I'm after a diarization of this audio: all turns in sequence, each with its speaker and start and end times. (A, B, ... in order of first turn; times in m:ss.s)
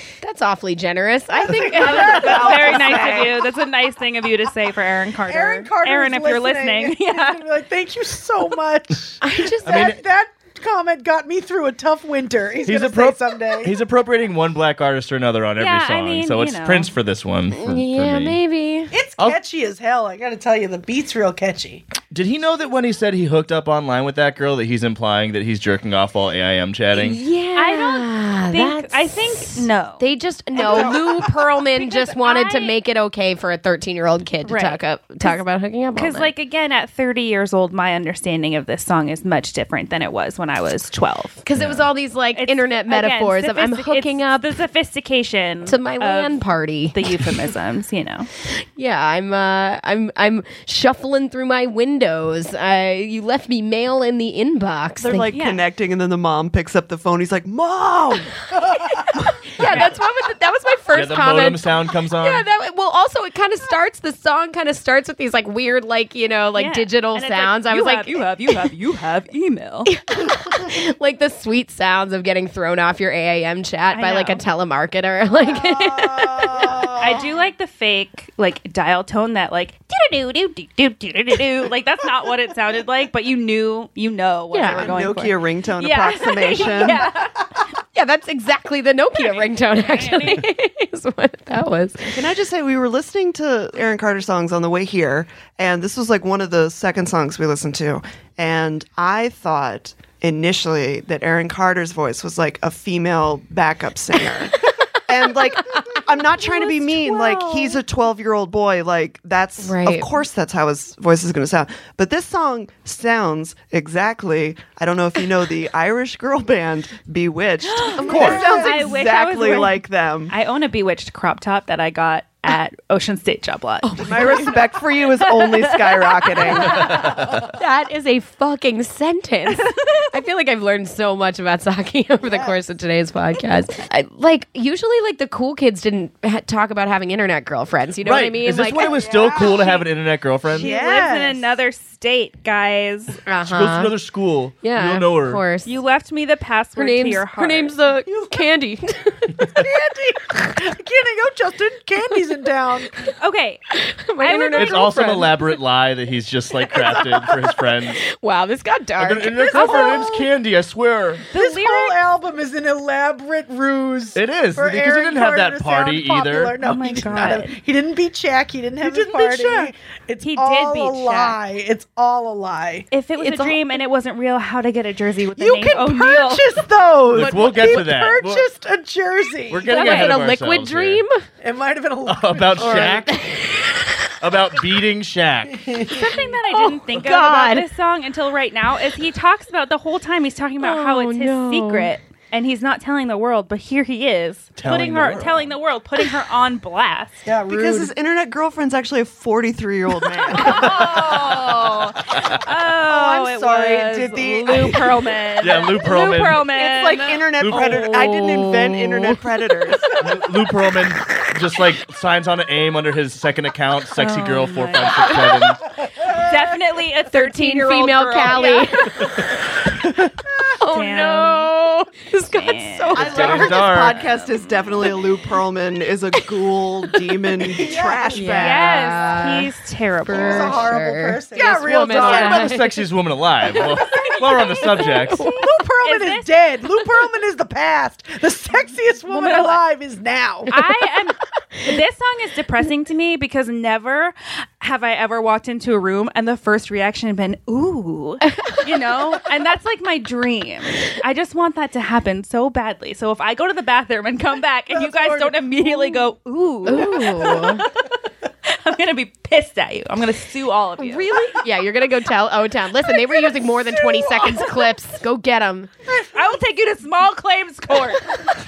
0:00.2-0:02.9 A
0:01.4-0:02.7 B
0:01.8-0:07.4 C
0:01.8-0:03.4 D
0:05.2-0:13.7 B
0:09.2-0:09.9 A
0:09.6-0:10.0 E
0:12.6-0:18.4 E
0:15.6-0:16.9 C
0:17.5-0:18.9 A
0:18.9-0:21.8 B
0:22.1-0:27.2 E
0:26.9-0:36.3 A
0:27.6-0:30.1 C
0:30.6-0:31.3 B
0:31.8-0:32.7 C
0:34.4-0:35.4 C
0:35.9-0:41.4 C
0:41.4-0:44.6 A
0:41.6-0:41.8 E
0:42.4-0:46.4 C
0:45.6-0:47.4 A
0:46.9-0:48.3 C
0:48.8-0:55.4 A
0:55.0-0:58.5 D
0:55.3-0:55.6 C
0:58.9-1:08.7 A
0:59.6-0:59.9 C
1:00.9-1:02.4 E
1:06.5-1:09.9 C
1:09.9-1:16.9 A
1:13.9-1:14.4 C
1:16.1-1:17.0 B
1:16.6-1:17.1 D
1:17.0-1:27.6 C
1:24.5-1:25.0 A
1:24.7-1:27.1 D
1:27.9-1:32.1 A
1:29.2-1:30.5 C
1:32.0-2:00.3 D
1:46.4-1:47.8 A
1:49.6-1:50.2 A
1:57.6-2:07.0 C
1:58.0-1:58.9 A
1:58.1-1:58.4 E
2:03.8-2:04.6 A
2:04.0-2:07.0 D
2:06.8-2:07.2 E
2:07.5-2:19.0 A
2:09.5-2:10.1 C
2:12.2-2:12.6 B
2:18.0-2:20.7 E
2:18.9-2:19.6 B
2:19.4-2:19.8 C
2:20.5-2:21.4 B
2:20.5-2:23.2 C
2:23.2-2:23.9 A
2:23.4-2:25.4 E
2:24.6-2:25.8 A
2:25.6-2:27.8 C
2:26.8-2:29.5 A
2:29.4-2:33.0 B
2:33.2-2:33.6 C
2:33.7-2:35.3 A
2:34.2-2:35.0 C
2:34.6-2:38.0 E
2:38.0-2:40.0 A
2:39.0-2:41.2 E
2:39.6-2:39.8 B
2:39.6-2:40.0 C
2:41.3-2:53.5 B
2:41.3-2:42.0 C
2:44.2-2:46.6 E
2:46.6-2:47.6 C
2:48.8-2:49.7 C
2:48.9-2:49.4 A
2:50.2-2:51.4 C
2:52.9-2:56.5 C
2:55.4-2:59.7 B
2:57.1-2:58.5 E
2:59.5-3:01.0 E
2:59.7-3:01.2 A
2:59.7-3:00.1 C
3:01.4-3:03.2 B
3:02.0-3:03.2 E
3:02.6-3:03.9 A
3:04.2-3:05.9 E
3:05.9-3:17.2 C
3:05.9-3:07.6 A
3:10.6-3:11.9 A
3:14.6-3:15.5 E
3:17.2-3:17.9 B
3:17.4-3:21.5 D
3:20.3-3:27.2 C
3:22.7-3:24.9 D
3:25.4-3:26.5 E
3:26.4-3:30.0 D
3:27.0-3:29.2 A
3:27.4-3:27.8 E
3:30.0-3:35.7 E
3:34.0-3:35.5 C
3:36.0-3:39.0 C
3:37.1-3:39.1 A
3:40.5-3:43.6 A
3:40.7-3:41.5 C
3:42.2-3:44.9 C
3:42.9-3:49.0 D
3:43.0-3:44.1 E
3:47.5-3:49.5 A
3:47.6-3:48.4 B
3:48.4-3:50.6 C
3:50.0-3:52.8 A
3:50.1-3:52.6 B
3:51.8-3:55.2 E
3:53.5-3:54.0 A
3:54.2-3:56.6 C
3:54.6-3:55.4 A
3:55.4-4:00.5 B
3:59.1-3:59.6 C
4:00.5-4:21.1 C
4:14.7-4:16.0 B
4:16.6-4:17.6 A
4:17.2-4:17.6 B
4:20.8-4:25.7 A
4:23.6-4:24.6 B
4:26.1-4:28.2 C